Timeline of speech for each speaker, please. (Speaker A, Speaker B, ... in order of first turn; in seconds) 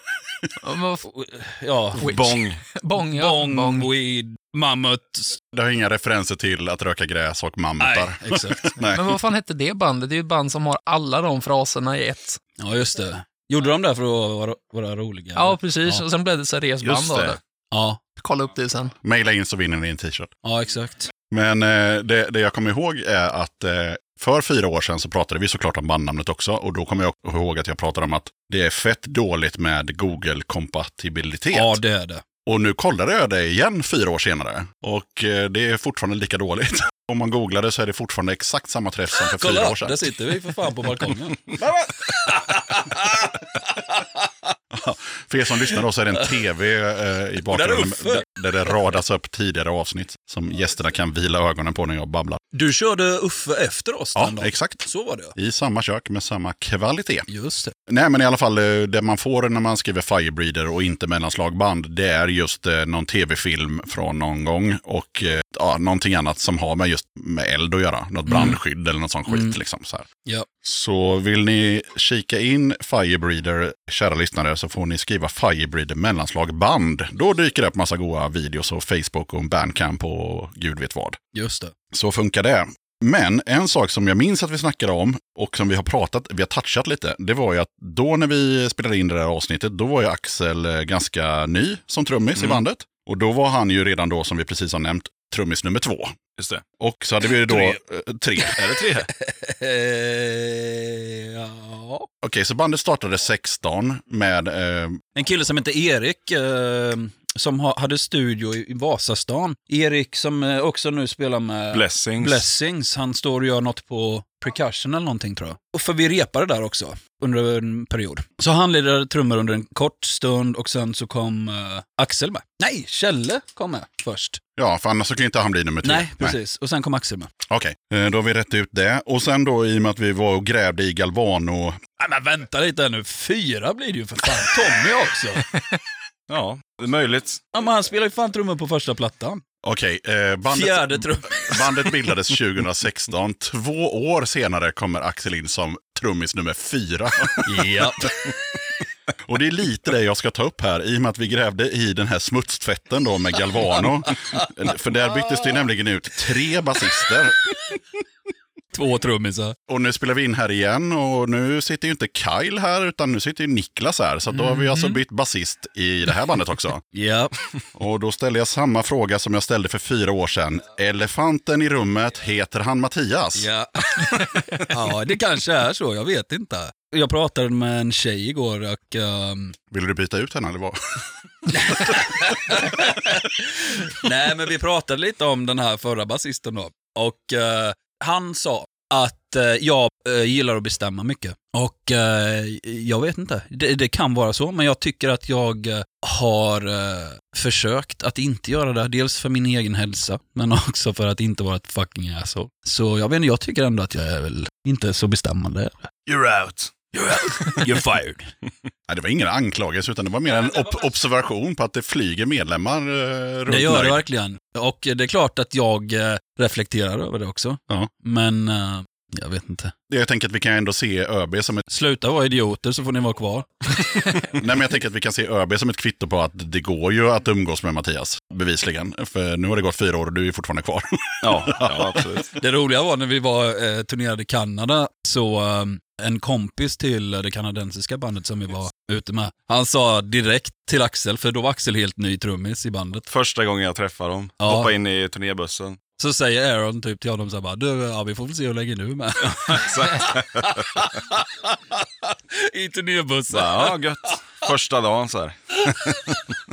Speaker A: 0.6-1.0, 2.0-3.9, 8.9-12.4, 15.3-17.4, 18.2-18.9, 164.7-165.0
Speaker B: 1.0-2.0, 3.0-5.4, 7.8-8.9, 12.6-16.0, 17.7-18.0, 20.4-21.1, 31.5-32.2, 39.3-44.5, 47.5-48.3, 52.5-55.3, 57.3-57.7, 68.3-68.6, 69.3-69.5, 81.3-81.7, 97.3-97.8, 99.1-102.1, 105.2-124.4, 125.8-127.3, 132.0-135.4, 137.5-139.4, 140.5-141.8, 147.4-148.2, 154.1-154.4, 158.7-159.6, 166.9-167.5, 173.3-179.6, 181.5-206.0, 206.9-208.3, 213.5-219.7, 221.7-223.6, 232.3-243.1, 244.4-244.7, 246.0-254.4
Speaker C: 2.0-2.6, 16.8-17.4, 92.3-92.6, 96.4-96.6, 98.6-99.1, 111.7-112.4, 136.3-137.4, 206.1-206.9, 231.2-232.3, 243.1-245.8, 249.2-250.6, 253.3-255.4
Speaker D: 5.5-9.0, 19.0-20.3, 21.3-31.8, 32.4-40.1, 44.7-52.4, 54.1-57.3, 57.9-70.0, 70.6-81.2, 81.9-96.2, 96.8-98.6, 102.2-105.1, 124.6-126.4, 127.5-131.8, 139.6-147.6, 149.2-157.5, 159.7-166.8, 167.8-173.5, 179.7-181.0, 208.9-214.0, 219.9-221.6, 224.3-232.0